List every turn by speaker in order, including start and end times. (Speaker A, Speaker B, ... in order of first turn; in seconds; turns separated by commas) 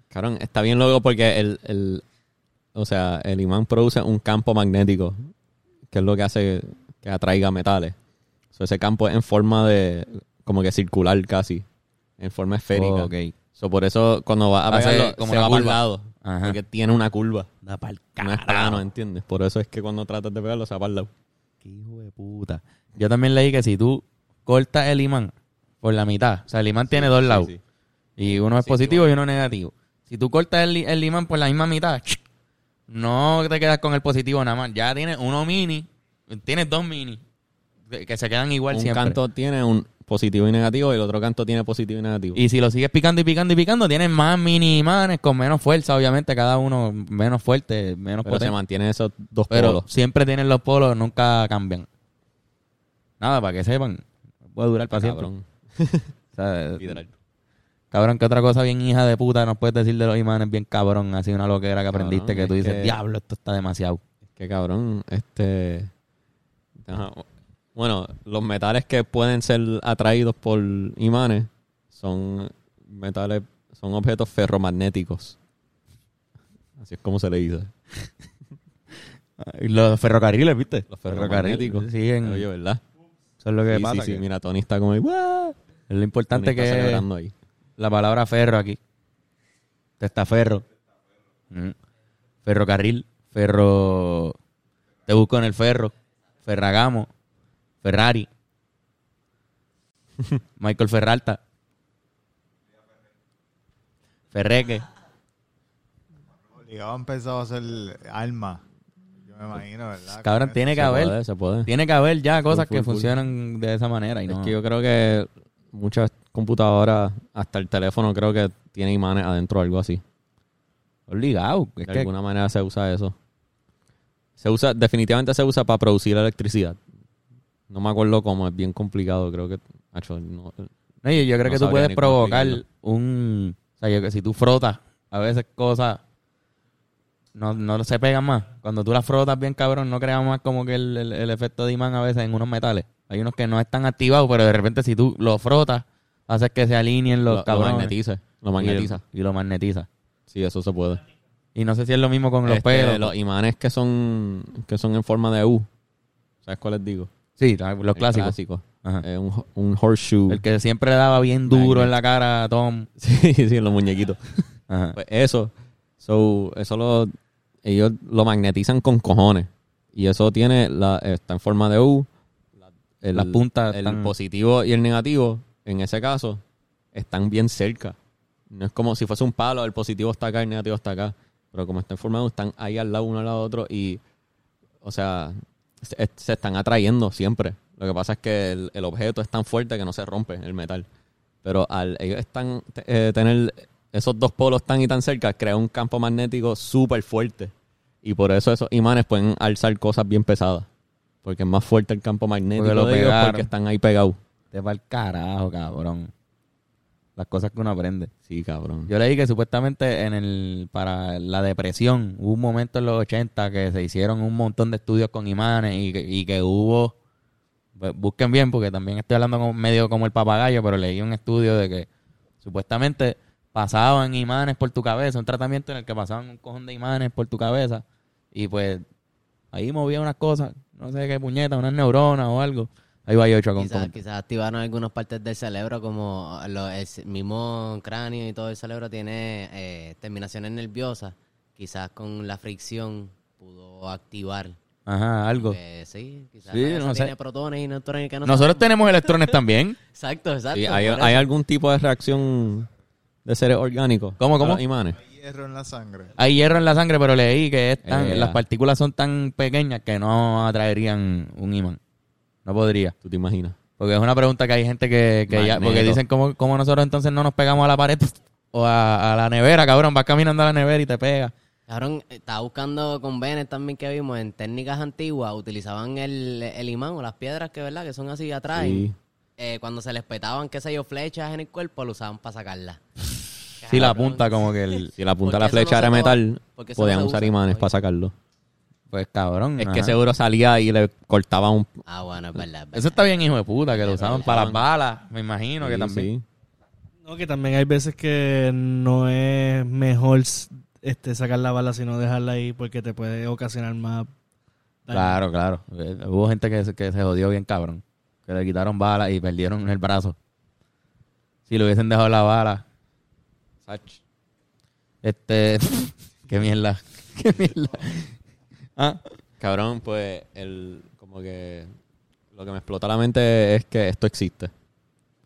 Speaker A: 0.1-2.0, Speaker A: 2.7-5.3, Speaker A: 5.9-7.9, Speaker A: 8.5-11.6, Speaker A: 12.2-17.5, Speaker B: 12.7-13.3, Speaker B: 14.7-16.6, Speaker B: 17.6-18.8, Speaker A: 18.2-21.1, Speaker B: 21.6-27.5, Speaker A: 26.9-27.6, Speaker B: 28.2-32.2, Speaker A: 28.2-29.1, Speaker B: 32.9-37.2, Speaker B: 37.9-39.2, Speaker A: 38.7-42.4, Speaker B: 42.3-48.5, Speaker A: 48.2-49.9, Speaker B: 49.5-51.9, Speaker B: 53.2-55.3, Speaker A: 54.9-56.1, Speaker B: 56.3-57.0, Speaker A: 56.8-57.1, Speaker B: 57.9-64.0, Speaker A: 61.9-63.0, Speaker A: 64.3-65.9, Speaker A: 66.8-75.4, Speaker A: 76.8-77.7, Speaker B: 79.4-82.5, Speaker A: 80.9-82.8, Speaker B: 83.4-84.2, Speaker A: 83.7-85.5, Speaker B: 85.9-87.0, Speaker A: 86.3-87.3, Speaker B: 87.8-88.8, Speaker B: 90.0-90.6, Speaker B: 92.4-94.3, Speaker B: 95.1-95.9, Speaker B: 96.4-97.1, Speaker B: 97.8-98.3, Speaker B: 100.6-101.4, Speaker B: 104.3-104.8, Speaker C: 106.6-108.6, Speaker C: 109.2-110.7, Speaker B: 110.2-114.5, Speaker A: 110.7-111.7, Speaker A: 112.5-113.2, Speaker A: 114.3-120.0, Speaker B: 121.1-122.1, Speaker A: 121.8-123.1, Speaker A: 124.4-126.8, Speaker A: 127.7-130.7, Speaker B: 131.0-136.0, Speaker A: 131.4-132.6, Speaker B: 137.3-147.9, Speaker A: 147.2-149.0, Speaker B: 148.6-149.9, Speaker A: 150.3-151.0, Speaker B: 151.5-153.1, Speaker A: 152.4-155.7, Speaker A: 156.4-157.1, Speaker B: 157.4-159.0, Speaker A: 157.9-160.4, Speaker B: 160.3-162.9, Speaker A: 161.5-161.9, Speaker A: 163.0-164.2, Speaker B: 164.7-165.0, Speaker A: 164.9-167.1, Speaker A: 167.6-172.1, Speaker A: 172.6-176.4, Speaker B: 173.1-174.1, Speaker A: 176.9-178.0, Speaker A: 178.5-184.0, Speaker A: 184.8-190.9, Speaker A: 191.4-200.7, Speaker A: 201.2-204.2, Speaker B: 202.6-203.5, Speaker B: 204.5-206.1, Speaker B: 207.2-208.1, Speaker A: 208.3-208.9, Speaker B: 208.9-216.9, Speaker B: 217.8-221.9, Speaker B: 222.4-228.8, Speaker B: 229.5-234.0, Speaker D: 233.6-244.6, Speaker B: 244.9-245.6, Speaker D: 245.3-248.7, Speaker B: 246.5-247.1, Speaker B: 248.2-249.8, Speaker D: 249.9-251.3, Speaker A: 250.5-252.7, Speaker A: 253.2-255.0, Speaker B: 254.2-254.6, Speaker C: 255.0-256.1, Speaker B: 256.2-261.8, Speaker A: 257.8-258.4, Speaker B: 262.4-262.9, Speaker A: 263.0-263.6, Speaker B: 263.8-271.3, Speaker A: 265.3-266.0, Speaker D: 271.7-282.8, Speaker A: 278.5-278.9, Speaker D: 283.6-284.5, Speaker B: 283.6-284.9, Speaker A: 284.9-288.1, Speaker D: 285.2-287.7, Speaker B: 288.9-290.0, Speaker A: 289.6-291.7, Speaker D: 291.9-293.1, Speaker B: 292.7-296.1, Speaker D: 293.8-294.4, Speaker A: 294.0-294.6, Speaker A: 295.6-296.2, Speaker E: 297.0-304.1, Speaker E: 304.9-305.2, Speaker B: 304.9-310.1, Speaker B: 311.5-312.6, Speaker A: 313.6-314.0, Speaker B: 315.0-318.1, Speaker B: 318.8-319.0, Speaker A: 319.4-321.7, Speaker A: 322.3-324.5